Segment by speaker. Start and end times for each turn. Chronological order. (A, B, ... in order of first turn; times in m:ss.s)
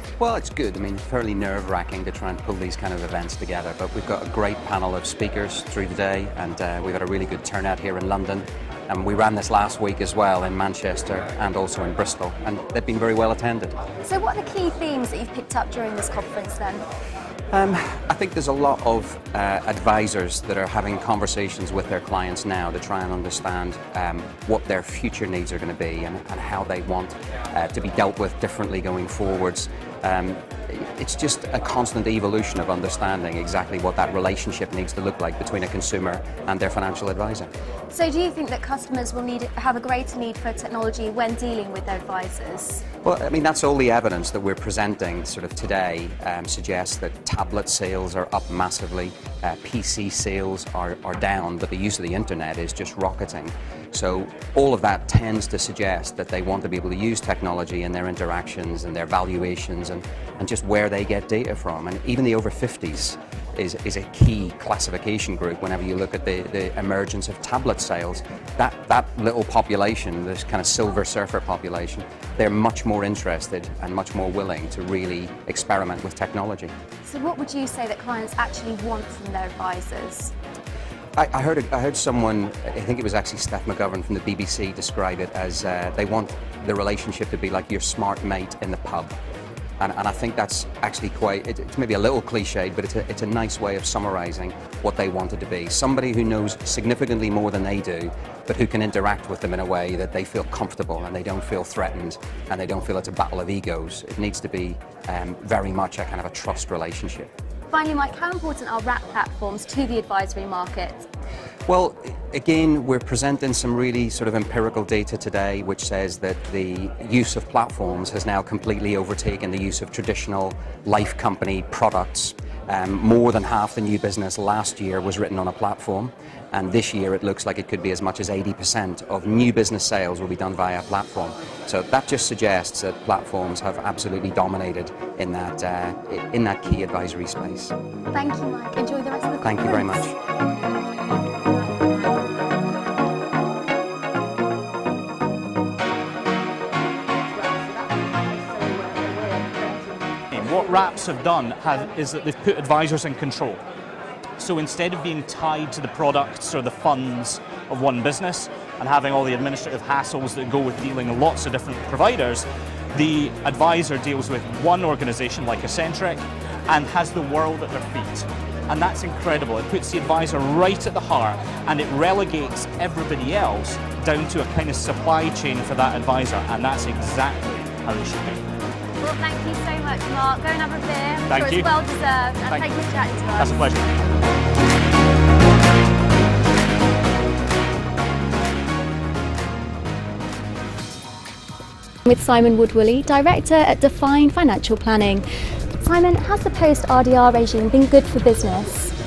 0:00.2-0:13.8 A
0:14.0-0:16.8 B
0:17.5-0:37.5 A
0:37.9-0:42.8 B
0:43.0-1:16.7 A
1:17.0-1:20.3 B
1:21.2-1:29.1 A
1:29.8-1:47.3 A
1:47.7-1:51.0 B
1:51.7-2:17.7 A
2:18.1-2:20.0 B
2:19.4-2:20.2 A
2:30.3-2:33.6 C
2:34.4-2:58.4 C
2:59.0-3:03.7 B
3:01.3-3:01.7 C
3:03.3-3:03.9 C
3:12.0-3:15.2 B
3:15.8-3:18.9 B